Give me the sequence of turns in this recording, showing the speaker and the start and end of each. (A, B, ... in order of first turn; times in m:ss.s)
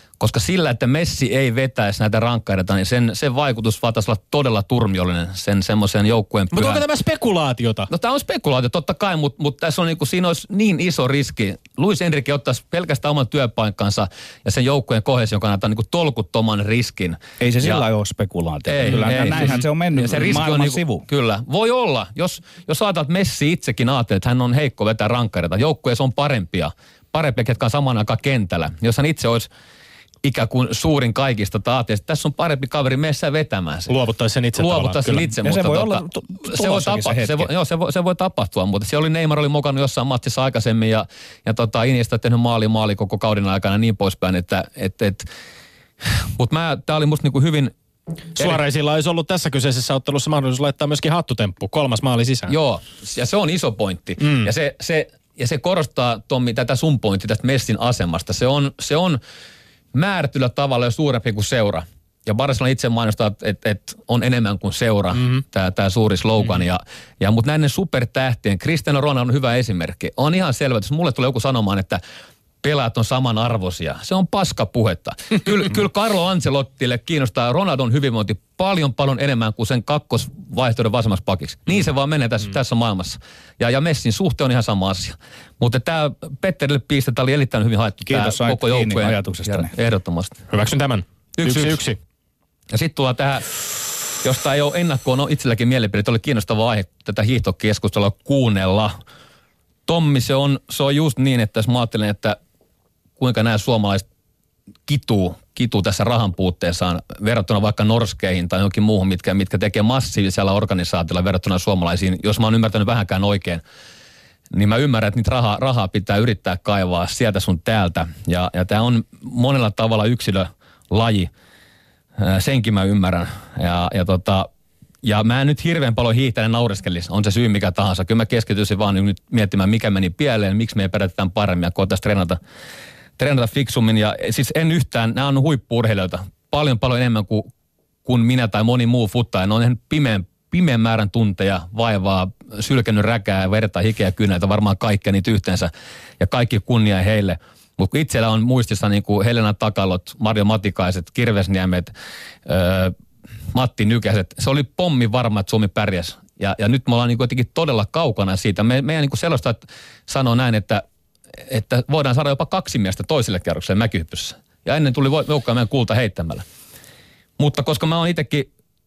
0:00.2-0:06.8 A
0:06.5-0:07.9 B
0:07.9-0:17.8 A
0:17.4-0:21.0 C
0:18.7-0:29.5 A
0:30.2-0:33.9 A
0:33.9-0:35.3 B
0:34.6-0:45.3 A
0:35.4-0:37.5 C
0:46.0-0:47.7 A
0:48.4-0:52.6 B
0:52.5-0:59.2 A
0:54.2-0:54.5 B
0:59.9-1:12.0 A
1:12.6-1:30.4 A
1:28.1-1:29.7 C
1:30.5-1:32.0 B
1:31.4-1:31.8 A
1:32.7-1:39.0 A
1:39.9-1:42.4 A
1:43.2-1:44.0 A
1:44.9-1:53.6 A
1:54.5-2:01.3 A
2:02.2-2:04.5 A
2:05.0-2:12.4 A
2:13.2-2:17.5 A
2:18.1-2:31.9 A
2:32.5-2:32.9 A
2:33.5-2:40.8 A
2:41.4-2:46.4 A
2:47.4-2:48.5 A